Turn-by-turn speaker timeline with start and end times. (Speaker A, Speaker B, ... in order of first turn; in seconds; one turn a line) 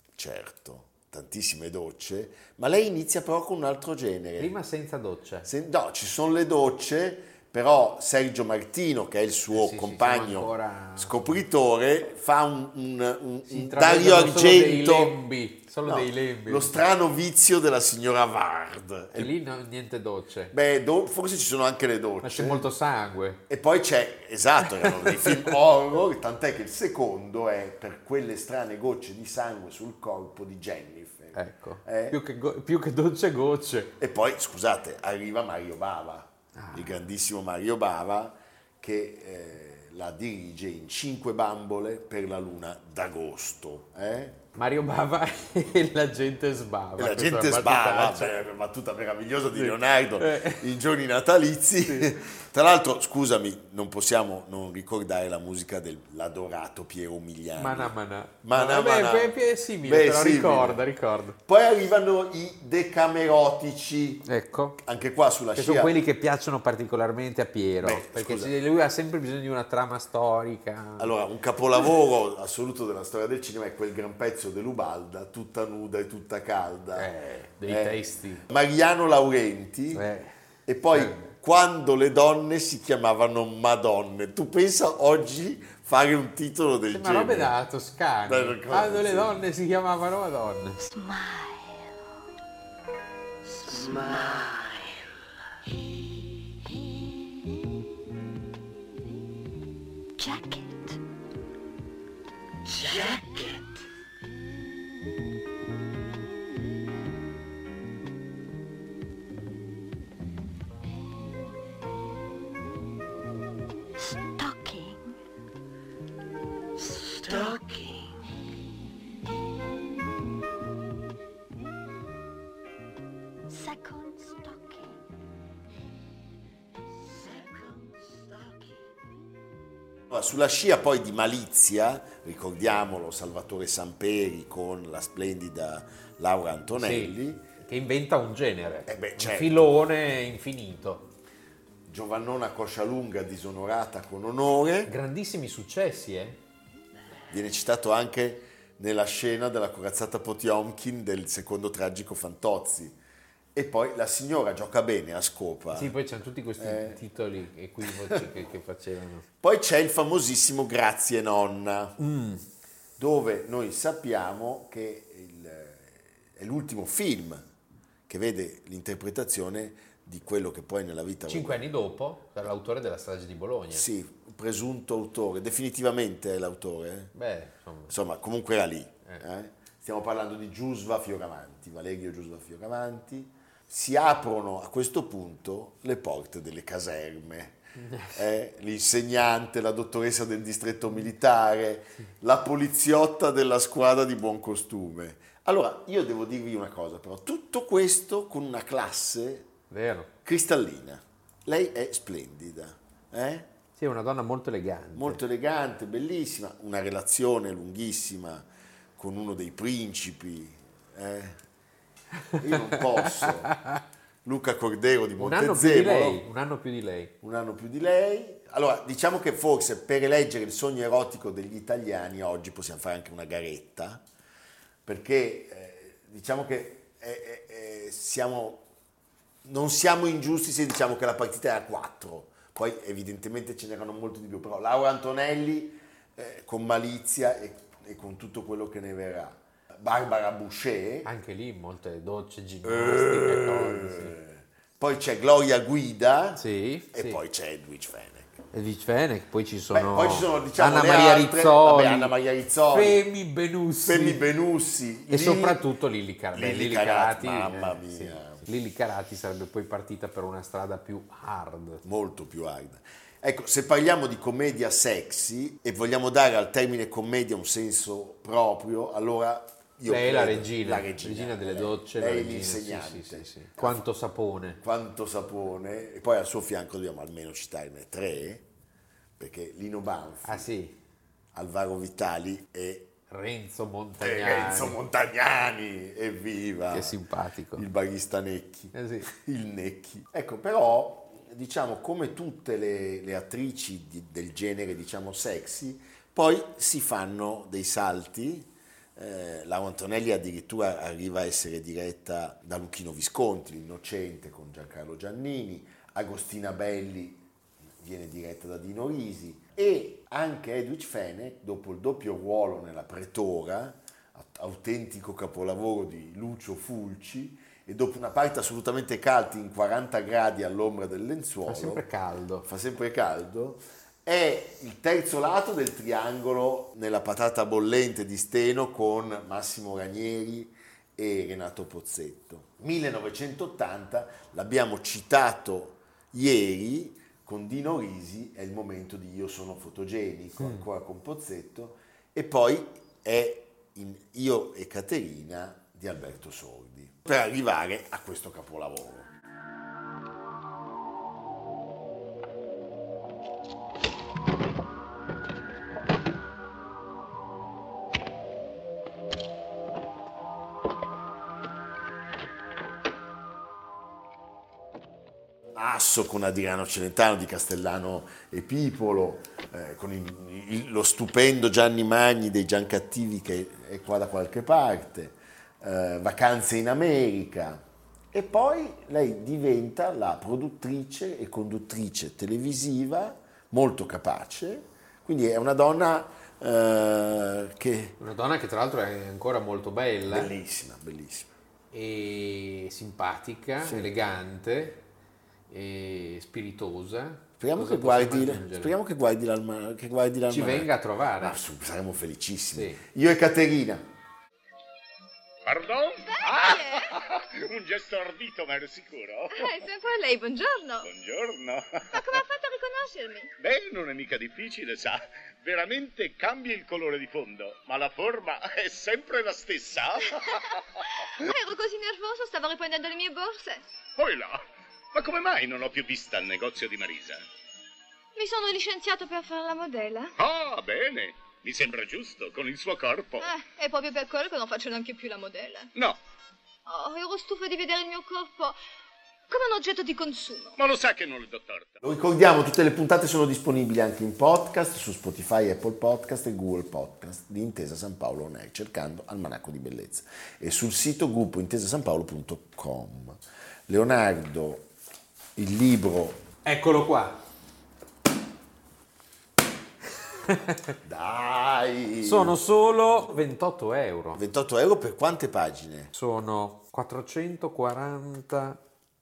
Speaker A: 0.1-4.5
Speaker B: 4.4-5.5
Speaker A: 5.4-15.2
Speaker B: 9.5-11.4
Speaker B: 13.5-16.8
Speaker A: 15.8-19.3
Speaker B: 19.1-20.5
Speaker A: 20.5-22.7
Speaker B: 22.2-23.4
Speaker A: 23.5-32.2
Speaker B: 24.8-25.5
Speaker B: 31.3-33.9
Speaker A: 34.0-44.4
Speaker B: 36.6-37.0
Speaker B: 44.5-48.4
Speaker A: 47.0-60.8
Speaker B: 49.5-50.7
Speaker B: 51.9-52.1
Speaker B: 57.6-61.4
Speaker A: 61.4-64.3
Speaker B: 64.2-64.8
Speaker A: 64.8-66.0
Speaker B: 65.6-71.1
Speaker A: 67.8-68.5
Speaker A: 71.0-77.1
Speaker B: 76.9-78.4
Speaker A: 77.6-80.0
Speaker B: 79.9-80.3
Speaker A: 80.7-87.5
Speaker B: 80.9-81.3
Speaker B: 86.9-90.8
Speaker A: 88.2-89.4
Speaker C: 90.8-92.1
Speaker C: 93.4-95.0
Speaker C: 96.7-97.4
Speaker C: 100.2-101.0
Speaker C: 102.7-103.6
Speaker C: 114.0-115.2
Speaker C: 116.8-118.2
Speaker C: 123.5-125.0
Speaker C: 127.1-128.5
Speaker A: 130.1-137.5
Speaker B: 136.7-141.1
Speaker A: 138.9-139.7
Speaker A: 141.9-144.9
Speaker B: 144.9-146.4
Speaker A: 147.3-153.0
Speaker A: 153.5-155.9
Speaker B: 155.7-159.2
Speaker A: 156.6-157.0
Speaker A: 157.8-158.2
Speaker A: 159.4-162.0
Speaker B: 162.0-162.4
Speaker A: 163.0-167.4
Speaker A: 168.1-171.7
Speaker B: 171.3-173.9
Speaker A: 173.7-177.1
Speaker B: 177.1-177.9
Speaker A: 177.9-187.6
Speaker B: 187.8-188.2
Speaker A: 188.1-199.5
Speaker B: 199.7-200.1
Speaker A: 200.2-203.5
Speaker B: 203.8-205.2
Speaker A: 204.9-208.4
Speaker A: 209.0-211.4
Speaker B: 212.3-213.8
Speaker A: 212.4-213.5
Speaker A: 214.2-216.2
Speaker B: 215.2-217.1
Speaker A: 217.2-224.0
Speaker A: 224.8-228.7
Speaker A: 229.4-241.1
Speaker B: 241.1-244.2
Speaker A: 242.6-248.4
Speaker B: 246.3-247.2
Speaker B: 248.5-252.1
Speaker A: 249.7-253.0
Speaker B: 252.7-254.2
Speaker A: 253.8-255.6
Speaker B: 255.1-261.8
Speaker A: 256.3-258.4
Speaker A: 261.8-273.8
Speaker B: 269.9-274.6
Speaker A: 274.6-278.4
Speaker A: 279.2-280.5
Speaker B: 280.2-280.7
Speaker A: 281.3-282.9
Speaker B: 283.1-284.8
Speaker A: 284.0-287.0
Speaker B: 286.7-287.6
Speaker A: 287.6-307.2
Speaker B: 288.7-289.1
Speaker A: 307.8-321.8
Speaker B: 321.5-322.5
Speaker A: 322.4-349.1
Speaker B: 340.4-340.6
Speaker A: 365.5-388.0
Speaker B: 388.0-390.3
Speaker A: 390.1-391.3
Speaker B: 391.7-394.9
Speaker A: 393.6-393.9
Speaker B: 395.5-398.7
Speaker A: 397.4-403.9
Speaker B: 400.3-401.4
Speaker B: 402.5-402.8
Speaker D: 405.4-409.6
Speaker E: 406.1-406.9
Speaker E: 409.3-410.9
Speaker D: 410.9-412.2
Speaker E: 411.9-413.3
Speaker D: 413.4-421.3
Speaker E: 421.2-423.6
Speaker D: 424.0-424.4
Speaker D: 424.9-427.2
Speaker E: 428.1-430.1
Speaker D: 430.2-433.3
Speaker E: 433.2-435.7
Speaker E: 436.6-438.6
Speaker E: 439.3-440.6
Speaker D: 440.6-441.8
Speaker A: 441.8-454.7
Speaker A: 455.4-456.2
Speaker B: 456.4-457.2
Speaker B: 460.2-460.7
Speaker A: 460.8-462.4
Speaker B: 462.0-464.2
Speaker A: 464.1-465.9
Speaker B: 465.9-468.6